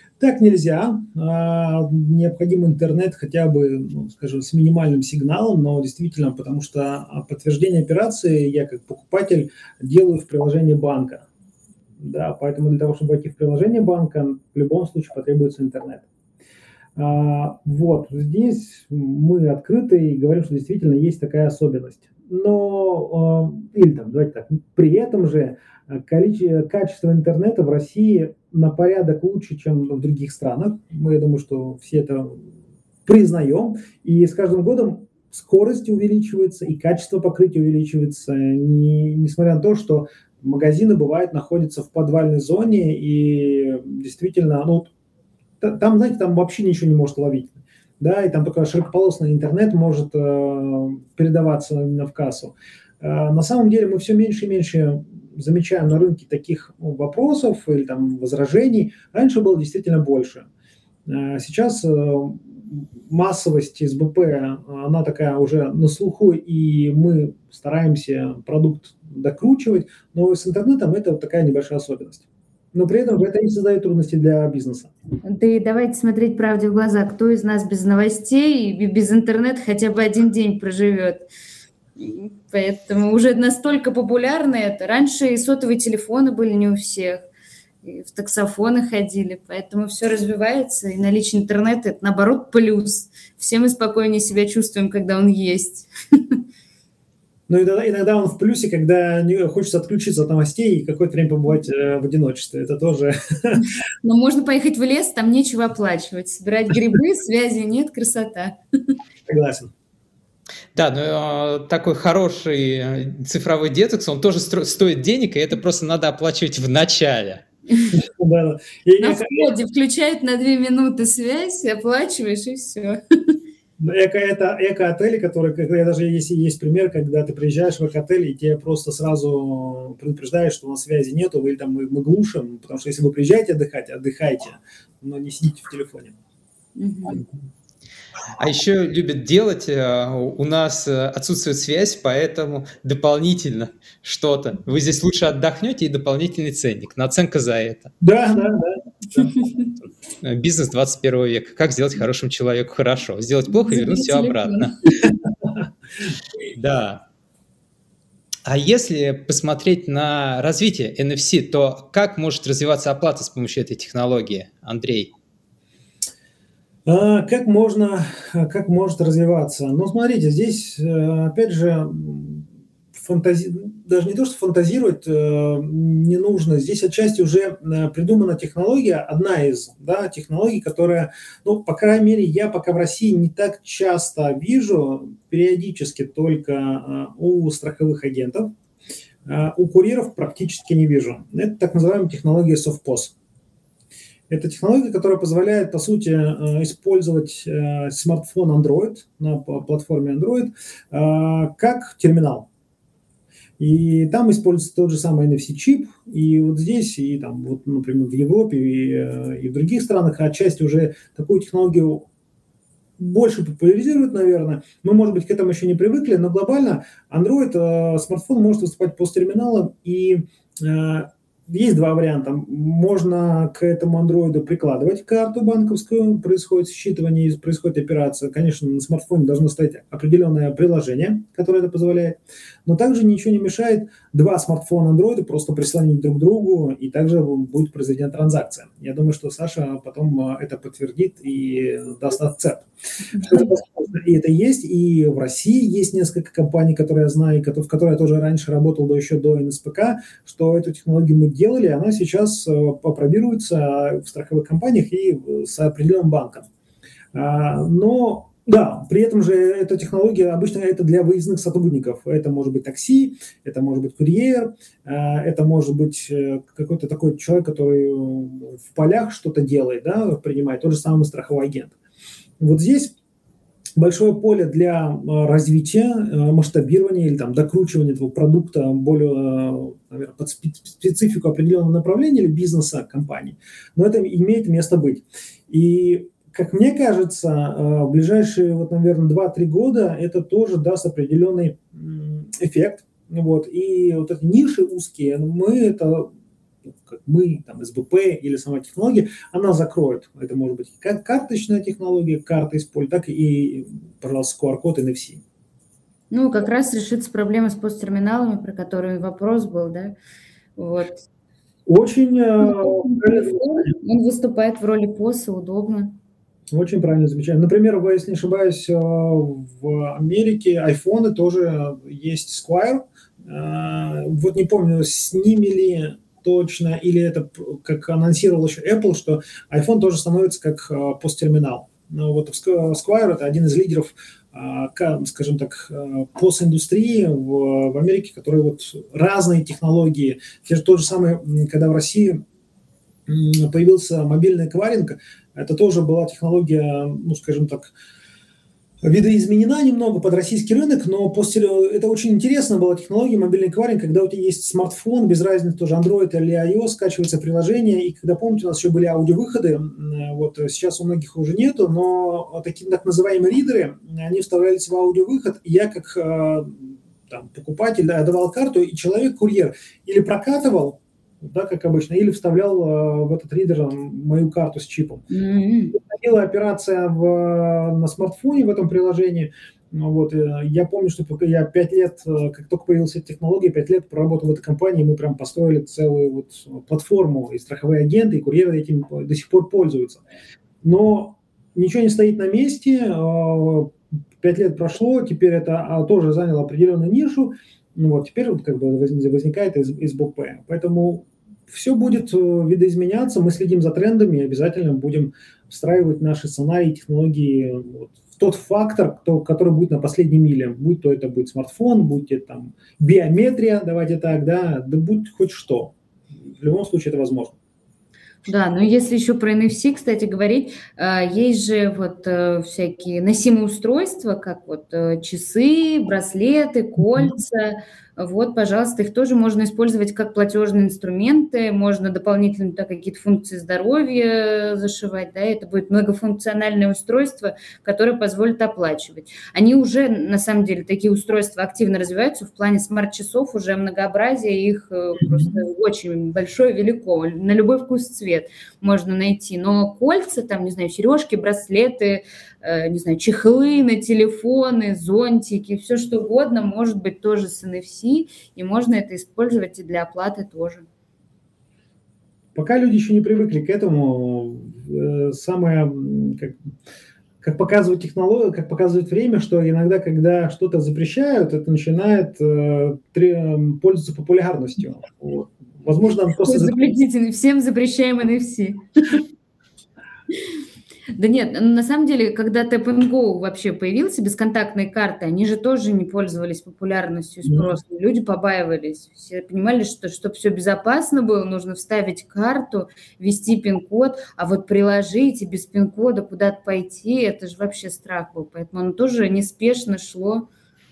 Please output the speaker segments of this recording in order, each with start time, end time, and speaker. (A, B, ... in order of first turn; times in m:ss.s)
0:00.2-0:11.2 A
0:12.0-0:16.0 A
0:17.0-0:32.4 A
0:33.0-0:44.9 A
0:45.6-1:00.4 A
1:01.0-1:14.9 A
1:15.2-1:21.2 B
1:22.0-1:27.2 B
1:27.8-1:36.4 B
1:37.5-1:43.6 A
1:44.0-1:48.6 B
1:49.3-1:49.7 A
1:50.7-1:57.4 C
1:57.9-1:59.5 A
1:59.0-2:03.0 B
2:03.8-2:16.1 A
2:16.8-2:17.2 B
2:18.4-2:27.9 C
2:28.0-2:29.3 A
2:30.2-2:34.8 C
2:33.5-2:35.1 B
2:36.5-2:37.0 C
2:38.4-2:45.1 C
2:46.9-3:08.5 A
3:09.3-3:13.1 A
3:14.3-3:22.5 A
3:23.6-3:32.1 A
3:33.0-4:16.4 A
4:03.2-4:03.5 B
4:17.1-4:31.7 A
4:32.4-4:32.9 A
4:33.8-4:56.1 A
4:56.9-5:05.2 A
5:06.1-5:09.9 B
5:10.6-5:11.0 B
5:11.6-5:13.7 A
5:12.4-5:15.9 B
5:16.5-5:42.2 A
5:43.1-5:47.7 A
5:48.8-6:15.0 A
6:15.1-6:15.8 B
6:15.7-6:30.0 A
6:30.6-6:55.7 A
6:56.3-6:57.4 A
6:58.3-7:40.6 B
7:06.8-7:07.1 A
7:25.0-7:25.4 A
7:42.3-7:46.4 A
7:47.2-7:56.6 A
7:56.2-7:59.0 B
8:00.9-8:20.3 B
8:07.2-8:07.6 A